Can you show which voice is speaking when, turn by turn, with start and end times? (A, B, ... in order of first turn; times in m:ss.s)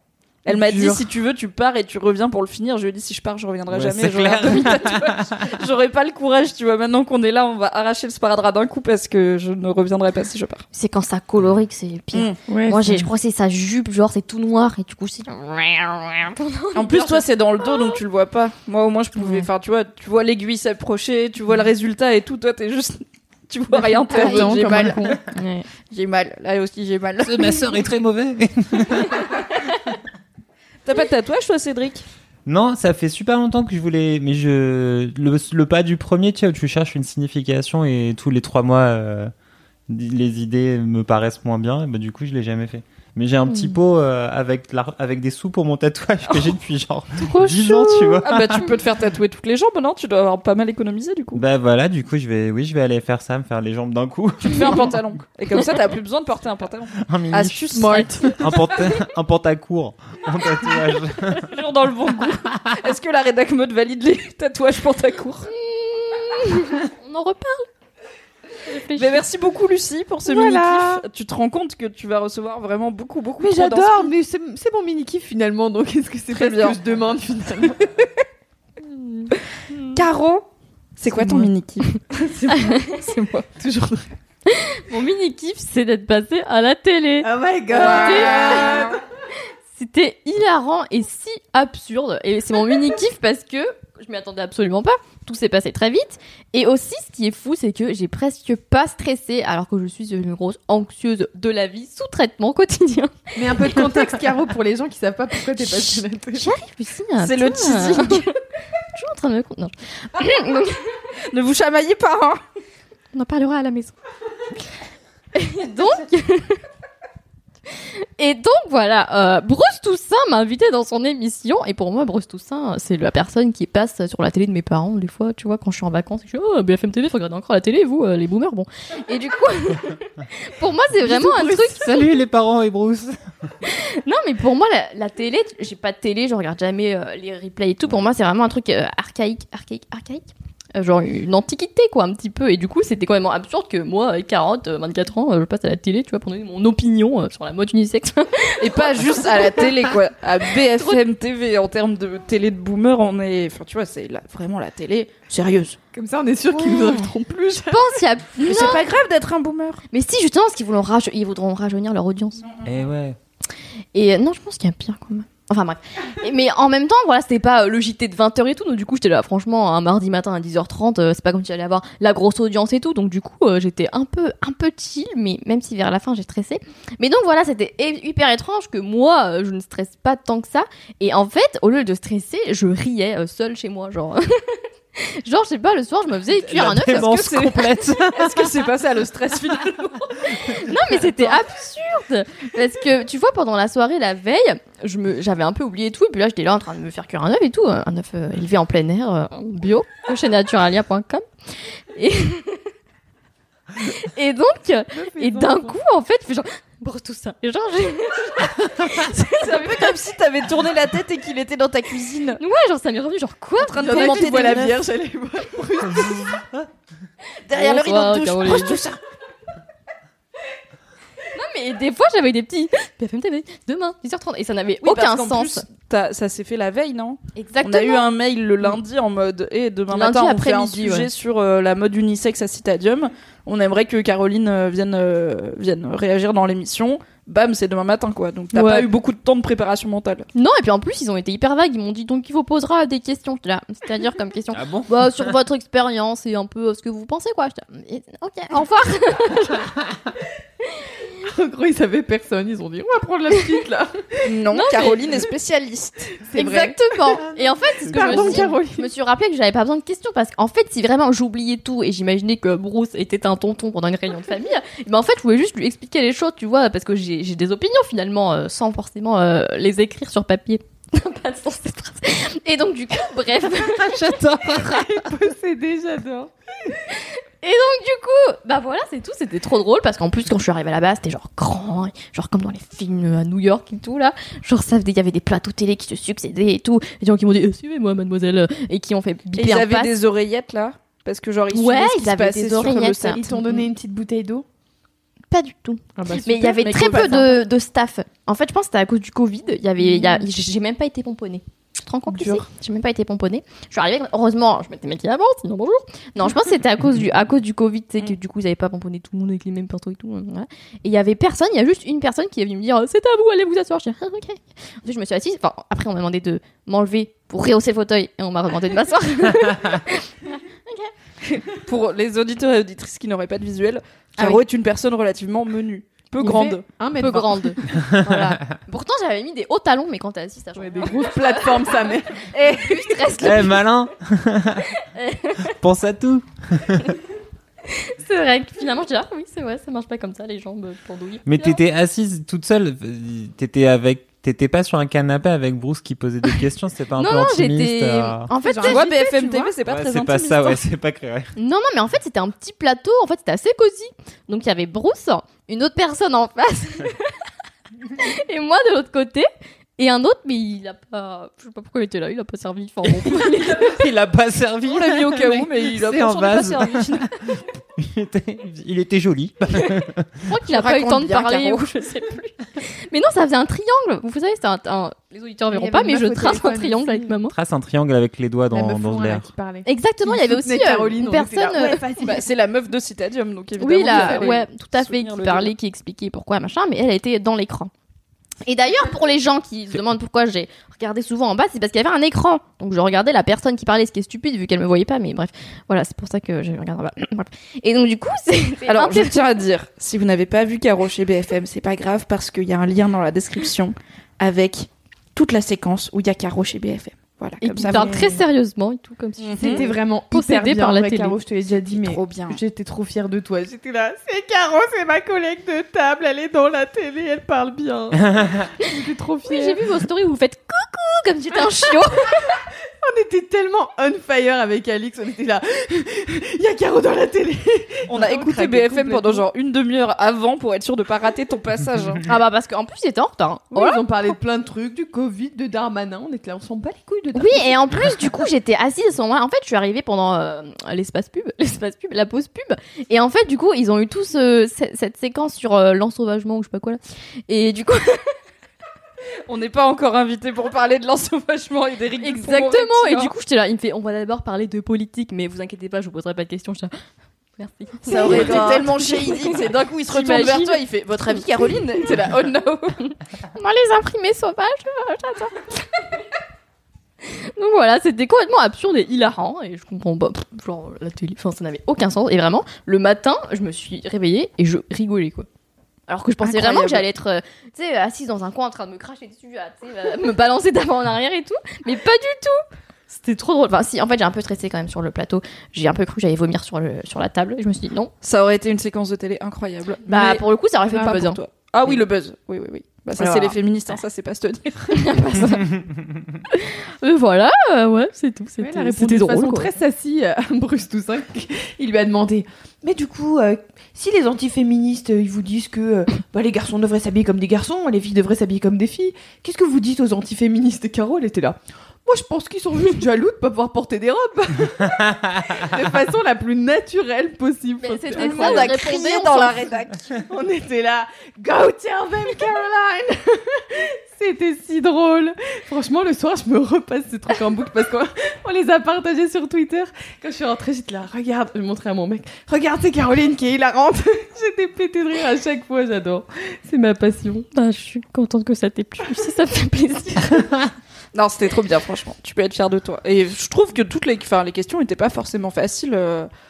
0:00.4-0:10.6 A
0:00.5-0:01.0 B
0:03.7-0:05.6 C
0:10.7-0:18.0 D
0:12.5-0:13.1 B
0:16.8-0:25.2 A
0:19.2-0:19.5 D
0:23.7-0:25.2 B
0:24.2-0:24.5 D
0:25.3-0:25.7 D
0:25.9-0:27.8 A
0:27.2-0:29.2 C
0:30.8-0:32.1 A
0:32.5-0:39.3 C
0:39.9-0:48.7 C
0:46.3-0:46.6 A
0:48.2-0:51.4 A
0:51.4-0:55.0 C
0:54.5-0:58.4 A
0:57.0-0:57.8 C
0:57.7-0:58.5 B
0:58.4-1:01.5 C
1:01.4-1:05.5 A
1:05.5-1:07.7 D
1:08.6-1:09.2 D
1:09.0-1:14.1 A
1:10.3-1:11.0 B
1:13.4-1:18.1 B
1:16.3-1:16.8 A
1:19.0-1:20.0 D
1:19.9-1:20.5 A
1:21.0-1:21.9 A
1:21.2-1:21.5 B
1:22.1-1:22.8 B
1:22.6-1:23.4 D
1:23.6-1:24.1 B
1:24.5-1:28.7 D
1:27.2-1:29.0 B
1:27.7-1:29.0 A
1:29.8-1:43.9 D
1:43.4-1:46.5 B
1:45.6-1:48.3 D
1:47.2-1:48.2 A
1:48.9-1:50.9 D
1:51.3-1:52.4 A
1:53.1-1:53.9 D
1:55.4-1:56.6 D
1:58.0-2:12.0 D
2:11.0-2:11.8 B
2:11.8-2:13.2 C
2:13.6-2:29.6 D
2:28.6-2:35.8 A
2:35.9-2:38.0 B
2:36.5-2:37.1 D
2:37.6-2:38.9 D
2:38.4-2:39.8 A
2:39.9-2:42.4 D
2:42.6-2:43.2 C
2:43.9-3:07.1 D
3:06.3-3:08.5 C
3:06.6-3:10.2 A
3:10.3-3:22.6 D
3:23.8-3:29.8 D
3:24.9-3:25.8 B
3:29.4-3:32.4 A
3:32.4-3:34.7 D
3:33.6-3:34.9 A
3:33.8-3:36.4 B
3:35.9-3:36.7 C
3:37.5-3:39.0 A
3:37.5-3:38.8 D
3:41.3-3:45.6 D
3:44.8-4:00.3 A
3:47.4-3:48.0 D
3:49.9-3:51.1 D
3:58.5-3:58.9 D
4:00.4-4:09.6 D
4:04.5-4:05.4 C
4:11.2-4:14.3 B
4:14.2-4:16.4 A
4:14.5-4:15.0 D
4:16.3-4:16.8 B
4:16.3-4:34.0 D
4:17.7-4:18.5 C
4:17.9-4:18.9 B
4:33.6-4:35.1 C
4:34.8-4:36.8 B
4:36.9-4:49.9 D
4:49.3-4:53.4 A
4:51.5-4:53.6 D
4:53.1-4:54.4 B
4:55.3-5:20.9 D
4:56.0-4:56.6 B
4:56.5-4:57.4 A
4:59.8-5:00.2 B
5:02.1-5:02.5 B
5:21.6-5:26.6 A
5:26.2-5:27.6 B
5:27.0-5:33.6 D
5:27.8-5:28.3 C
5:30.6-5:33.0 B
5:33.2-5:34.7 C
5:34.8-5:35.4 D
5:35.4-5:36.9 C
5:37.8-5:41.6 D
5:41.2-5:48.3 C
5:47.0-5:49.3 D
5:48.4-5:49.5 B
5:48.6-5:50.6 A
5:49.7-5:51.3 C
5:51.4-5:57.1 D
5:58.0-5:59.3 D
5:59.8-6:03.8 D
6:02.8-6:10.1 C
6:04.7-6:07.1 A
6:10.3-6:17.4 D
6:10.5-6:11.7 A
6:15.5-6:17.1 B
6:17.3-6:19.3 C
6:18.5-6:22.2 B
6:19.6-6:21.8 D
6:22.0-6:25.5 A
6:23.6-6:27.7 D
6:23.8-6:24.3 B
6:28.5-6:39.2 D
6:38.7-6:48.2 A
6:47.4-6:51.2 D
6:47.6-6:48.2 B
6:49.2-6:49.6 A
6:49.4-6:59.6 B
6:51.7-6:52.4 A
6:58.1-6:58.4 C
6:59.3-7:02.4 D
7:02.8-7:09.2 B
7:07.9-7:12.0 A
7:12.1-7:13.9 D
7:13.5-7:17.9 B
7:17.1-7:28.1 D
7:29.3-7:33.1 A
7:32.0-7:36.7 D
7:37.4-7:40.6 D
7:37.9-7:42.8 A
7:37.9-7:38.6 B
7:42.8-7:45.6 D
7:47.1-7:55.3 D
7:55.9-8:07.9 D
7:56.2-7:56.8 A
8:08.0-8:15.0 A
8:09.9-8:11.2 D
8:13.0-8:13.8 D
8:14.7-8:15.5 D
8:16.3-8:19.6 D
8:18.4-8:38.7 B
8:37.6-8:39.4 D
8:37.9-8:39.8 A
8:39.9-8:57.3 B
8:57.3-9:00.2 D
9:00.9-9:06.1 A